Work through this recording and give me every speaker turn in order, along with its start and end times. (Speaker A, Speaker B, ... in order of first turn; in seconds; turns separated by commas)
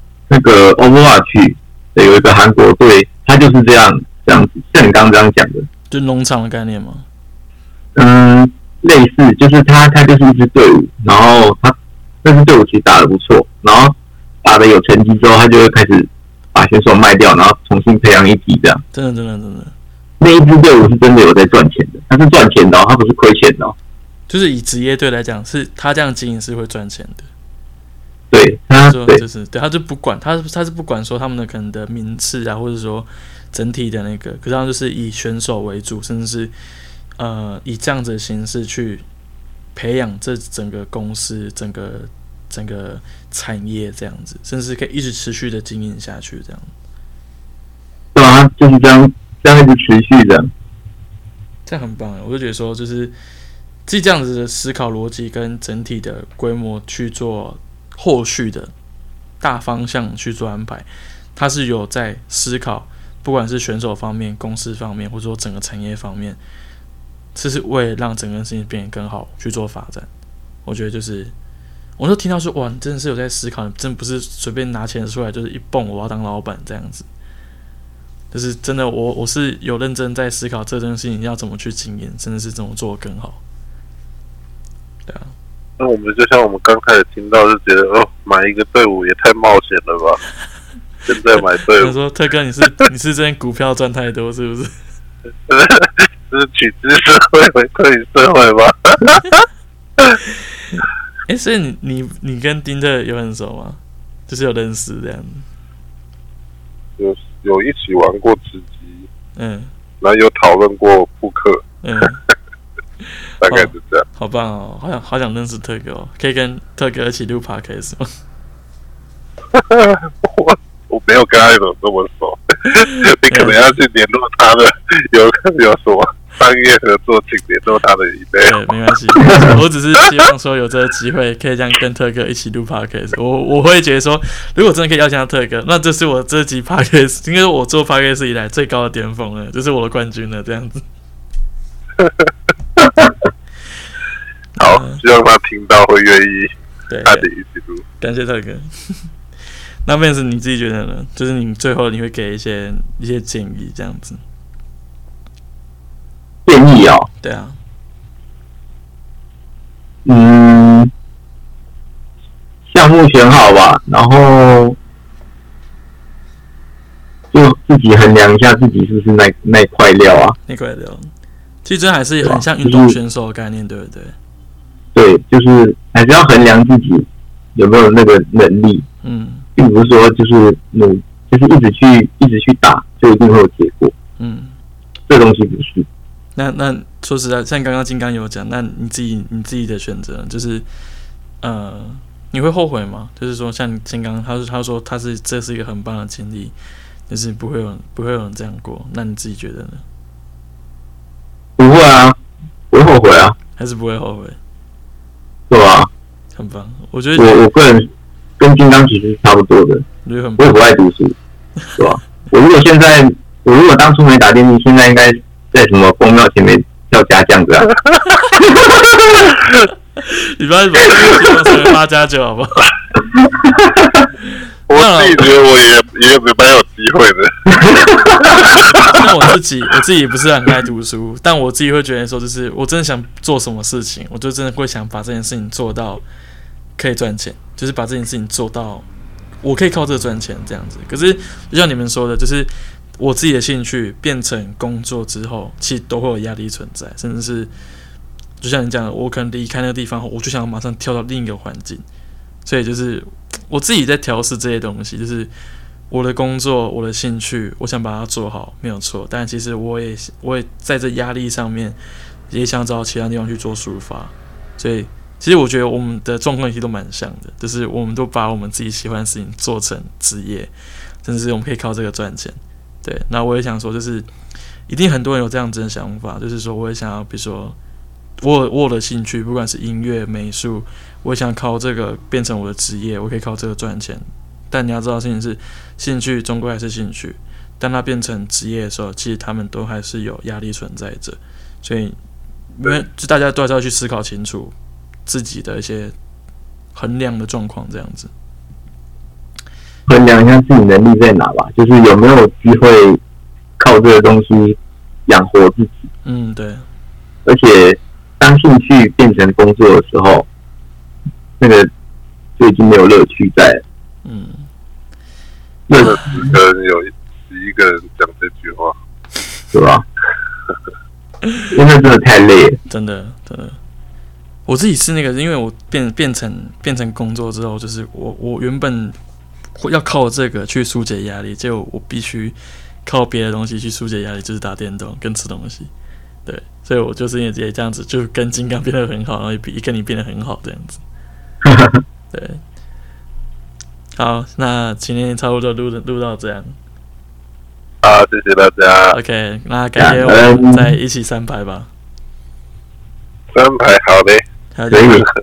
Speaker A: 0.3-5.7, Speaker B: 5.9-7.0, Speaker A: 8.0-18.8, Speaker B: 18.9-19.7, Speaker A: 20.2-23.8, Speaker B: 24.3-27.3, Speaker A: 28.3-29.2, Speaker B: 28.9-36.5, Speaker B: 37.2-39.0, Speaker B: 39.8-46.7, Speaker A: 48.1-50.5, Speaker B: 51.7-53.1, Speaker B: 53.9-58.7, Speaker B: 59.4-66.4, Speaker B: 67.3-70.1, Speaker B: 70.7-71.3, Speaker B: 72.0-77.1, Speaker B: 78.3-83.4, Speaker B: 85.1-85.3, Speaker C: 85.8-90.2, Speaker C: 91.1-92.0, Speaker B: 91.8-94.7, Speaker C: 95.5-99.4, Speaker B: 100.8-105.5, Speaker C: 107.0-109.1, Speaker B: 109.4-109.7, Speaker C: 110.0-111.6, Speaker B: 111.8-112.2, Speaker C: 113.4-114.1, Speaker B: 113.4-118.1, Speaker C: 119.5-128.6, Speaker B: 122.7-123.8, Speaker B: 128.4-140.8, Speaker A: 129.2-129.6, Speaker C: 142.0-142.3, Speaker B: 144.6-145.0, Speaker C: 144.6-146.5, Speaker B: 146.9-147.3, Speaker C: 147.1-147.8, Speaker B: 148.0-149.1, Speaker B: 149.9-154.2, Speaker A: 156.5-157.1, Speaker B: 157.2-157.6, Speaker A: 160.1-160.9, Speaker A: 162.7-164.8, Speaker A: 167.3-170.4, Speaker B: 170.5-171.1, Speaker B: 171.7-174.2, Speaker A: 172.2-173.0, Speaker A: 174.9-178.9, Speaker B: 179.0-179.5, Speaker A: 179.6-183.9, Speaker B: 184.2-184.6, Speaker A: 185.1-185.9, Speaker B: 186.4-190.7, Speaker B: 191.4-196.5, Speaker B: 197.1-199.8, Speaker A: 201.6-202.2, Speaker A: 202.7-203.4, Speaker B: 203.6-204.4, Speaker A: 205.5-205.9, Speaker B: 206.4-207.4, Speaker A: 207.2-207.9, Speaker A: 208.4-209.9, Speaker B: 210.1-210.6, Speaker A: 210.4-211.2, Speaker A: 211.8-217.7, Speaker B: 220.0-222.7, Speaker C: 224.7-227.3, Speaker B: 224.7-225.3, Speaker A: 227.6-228.0, Speaker C: 228.2-228.9, Speaker B: 228.8-236.0, Speaker B: 236.8-238.9, Speaker B: 239.4-247.5, Speaker B: 248.4-251.8, Speaker B: 252.4-255.3, Speaker B: 255.9-261.8, Speaker B: 262.3-270.5, Speaker B: 271.0-274.1, Speaker B: 274.7-277.6, Speaker B: 278.2-292.0, Speaker B: 292.6-294.5, Speaker B: 295.1-295.9, Speaker B: 296.7-298.1, Speaker A: 299.9-303.0, Speaker A: 303.6-305.8, Speaker B: 306.1-306.6, Speaker A: 307.2-310.3, Speaker A: 311.4-311.7, Speaker A: 312.4-313.6, Speaker B: 314.1-314.5, Speaker A: 315.7-316.2, Speaker C: 315.8-318.8, Speaker B: 316.0-316.3, Speaker A: 319.5-319.8, Speaker A: 321.5-322.6, Speaker B: 322.7-323.6, Speaker B: 324.5-329.0, Speaker B: 329.6-335.7, Speaker B: 336.3-340.8, Speaker A: 341.4-341.8, Speaker B: 342.1-342.4, Speaker B: 344.0-346.6, Speaker C: 347.8-349.0, Speaker B: 348.9-351.7, Speaker A: 349.8-350.7, Speaker C: 353.3-354.2, Speaker B: 354.5-355.1, Speaker A: 354.7-355.1